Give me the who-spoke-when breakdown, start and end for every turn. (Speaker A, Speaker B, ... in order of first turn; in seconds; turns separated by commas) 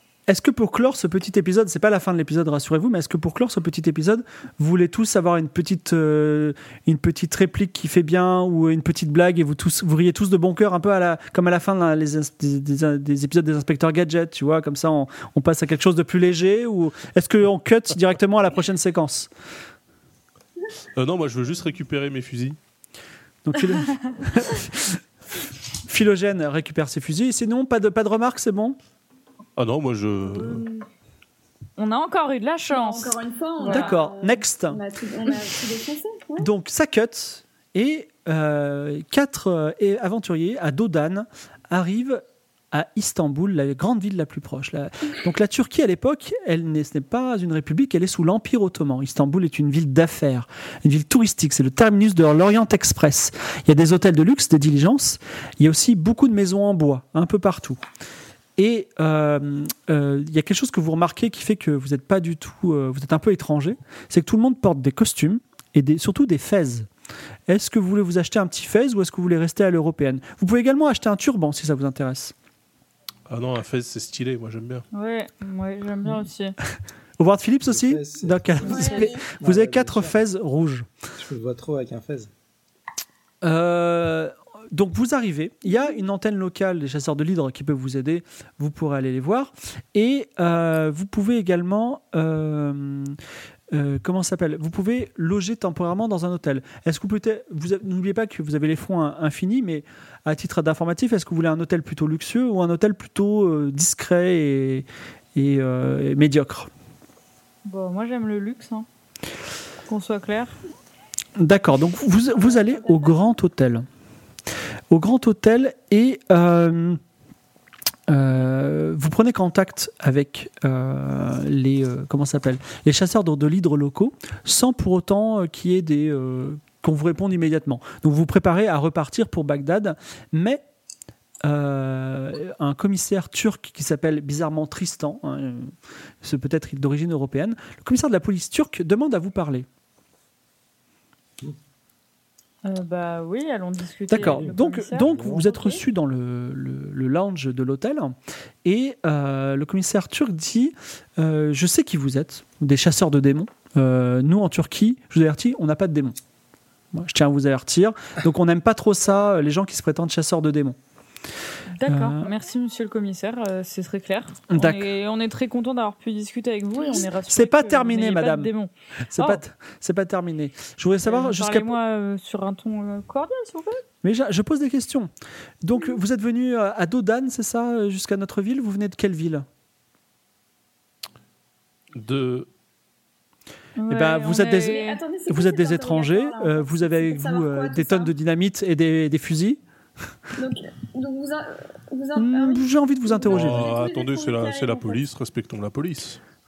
Speaker A: 0.3-19.3, Speaker B: 21.0-22.6, Speaker A: 23.4-25.0, Speaker A: 25.9-28.8, Speaker B: 29.6-30.6, Speaker C: 30.3-30.9, Speaker C: 31.8-34.0, Speaker D: 32.7-36.5, Speaker A: 33.7-34.8, Speaker A: 36.4-57.8, Speaker A: 58.6-66.9, Speaker A: 67.5-72.3, Speaker B: 73.3-74.8, Speaker C: 74.9-76.6, Speaker A: 77.2-80.9, Speaker E: 77.7-80.1, Speaker D: 78.6-79.3, Speaker C: 78.7-79.0, Speaker E: 81.2-82.3, Speaker A: 83.4-93.2, Speaker A: 93.7-106.7, Speaker C: 107.7-108.9, Speaker C: 109.9-110.6, Speaker A: 111.4-113.8, Speaker D: 112.4-113.1, Speaker A: 114.9-117.0, Speaker A: 118.1-130.6, Speaker A: 131.4-139.7, Speaker C: 142.6-145.1, Speaker A: 144.1-156.2, Speaker E: 144.2-145.6, Speaker A: 156.9-160.8, Speaker C: 161.7-169.4, Speaker A: 161.9-162.3, Speaker A: 164.5-164.9, Speaker A: 167.3-168.5, Speaker A: 169.1-171.8, Speaker C: 171.0-173.8, Speaker A: 174.0-175.1, Speaker A: 175.6-179.5, Speaker B: 181.9-182.5, Speaker C: 183.8-185.0, Speaker A: 183.9-189.6, Speaker D: 184.6-188.1, Speaker D: 190.4-195.0, Speaker A: 192.2-193.7, Speaker B: 193.3-196.2